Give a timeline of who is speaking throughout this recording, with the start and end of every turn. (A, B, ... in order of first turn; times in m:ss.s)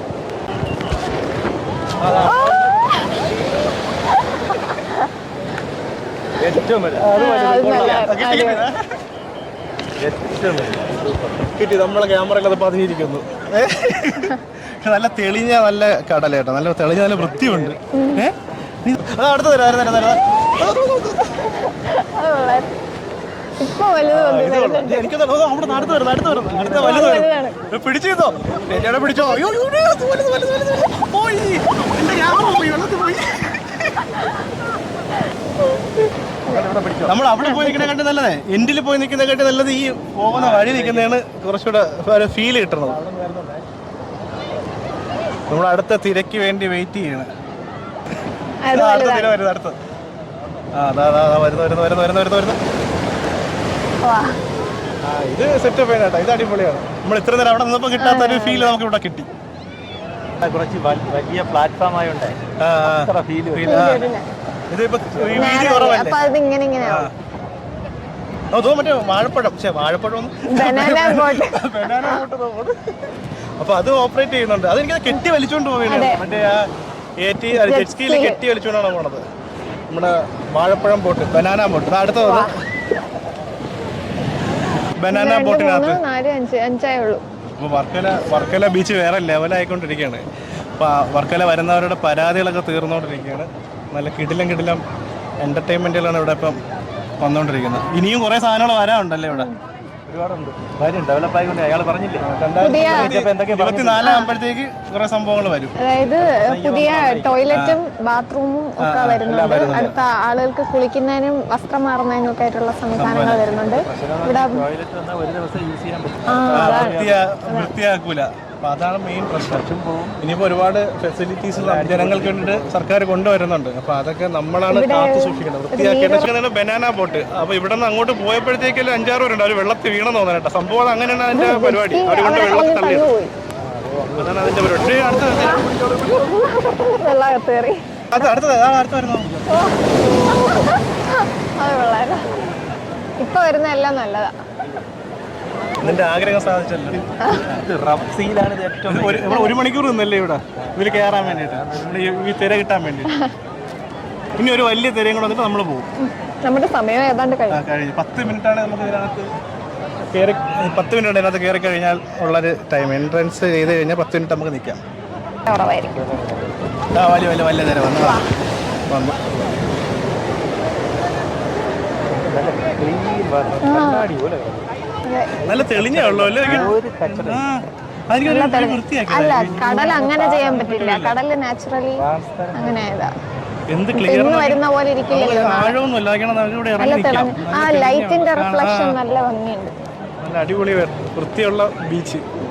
0:02.1-0:02.6 A
0:06.4-0:07.1 B
0:06.9-0:08.8 C
0:07.1-0:08.7 A
0:10.0-0:11.3 B
0:11.6-0:21.5 C
0:17.2-0:17.8 B
0:17.9-0:18.2 A
0:21.7-0:22.7 A
0:23.6-0:25.1 A
0:24.1-0:34.1 C
0:26.0-0:27.0 B
0:26.7-0:27.6 A
0:35.7-0:37.9 A
0:36.5-0:37.1 B
0:37.0-0:43.0 C
0:40.3-0:41.2 B
0:42.9-0:43.6 B
0:45.5-0:47.3 C
0:48.6-0:49.4 A
0:48.7-0:49.8 C
0:50.7-0:52.6 C
0:54.0-0:54.4 A
0:55.0-0:59.3 C
0:58.0-0:58.7 A
1:00.4-1:03.9 B
1:02.6-1:04.1 C
1:03.6-1:04.3 A
1:04.7-1:06.3 C
1:05.4-1:07.1 A
1:06.8-1:07.1 C
1:08.5-1:12.8 C
1:10.5-1:12.2 A
1:13.6-1:19.2 C
1:15.9-1:16.2 A
1:17.5-1:18.4 A
1:19.9-1:22.5 C
1:22.2-1:22.5 A
1:25.0-1:26.0 C
1:25.1-1:27.2 A
1:27.6-1:30.2 C
1:30.8-1:34.8 C
1:35.4-1:36.6 C
1:37.2-1:39.5 C
1:40.1-1:44.1 B
1:42.2-1:45.8 C
1:42.6-1:43.2 A
1:44.0-1:44.3 A
1:45.8-1:54.6 A
1:46.2-1:47.5 B
1:47.5-1:47.8 C
1:48.8-1:50.0 C
1:53.0-1:53.5 C
1:53.6-1:57.2 B
1:56.3-1:57.7 A
1:56.5-2:13.1 C
1:59.4-2:00.2 B
2:01.5-2:02.8 B
2:04.7-2:06.3 A
2:11.3-2:13.3 A
2:13.6-2:14.7 B
2:14.1-2:16.2 C
2:15.4-2:15.6 A
2:16.2-2:18.2 A
2:18.1-2:19.4 C
2:19.5-2:22.3 A
2:23.2-2:24.4 A
2:25.8-2:27.6 C
2:27.5-2:29.4 B
2:28.9-2:33.2 C
2:29.3-2:29.6 A
2:30.8-2:31.6 B
2:34.4-2:35.9 C
2:36.0-2:37.6 A
2:37.5-2:39.3 C
2:40.1-2:44.8 C
2:45.5-2:46.0 A
2:45.9-2:46.6 B
2:46.9-2:48.2 C
2:48.0-2:48.2 A
2:48.9-2:49.2 C
2:52.1-2:54.7 B
2:53.6-2:54.1 A
2:55.1-2:55.5 A
2:55.4-3:01.2 C
2:55.5-2:57.5 B
2:56.4-2:56.7 A
2:58.2-3:03.1 A
3:02.0-3:02.8 B
3:03.7-3:09.0 C
3:03.9-3:05.8 A
3:06.8-3:09.8 A
3:10.2-3:12.2 C